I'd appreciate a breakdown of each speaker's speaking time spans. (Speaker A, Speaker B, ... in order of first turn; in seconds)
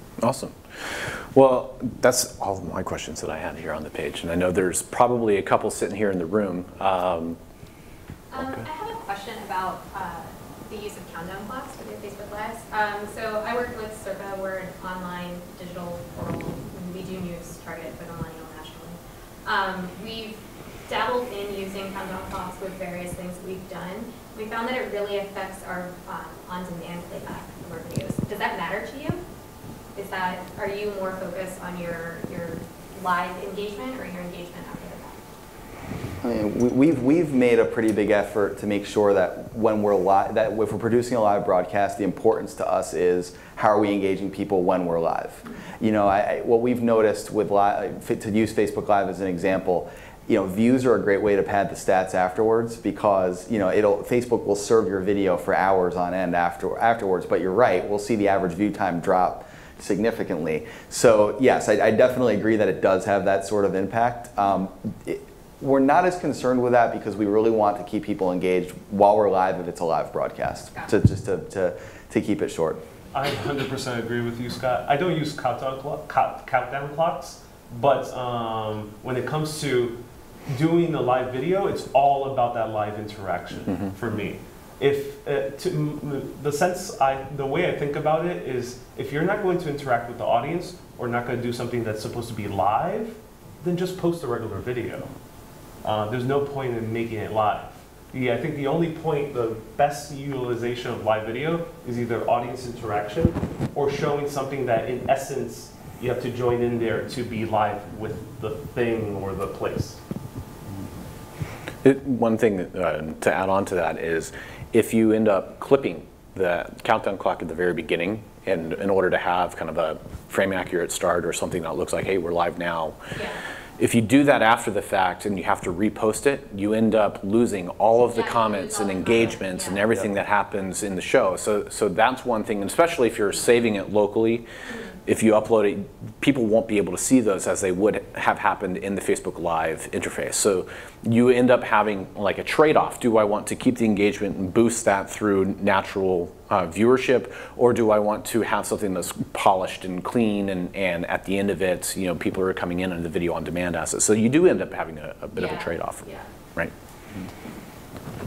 Speaker A: 0.2-7.4, 8.4-8.6, 111.8-123.0, 123.8-134.4, 135.1-156.7
Speaker B: 8.3-29.2, 29.9-35.2, 123.1-123.4, 128.0-129.8, 134.7-134.9, 155.3-156.2
Speaker C: 36.2-72.8
Speaker D: 73.1-80.0, 80.5-95.1, 95.8-110.0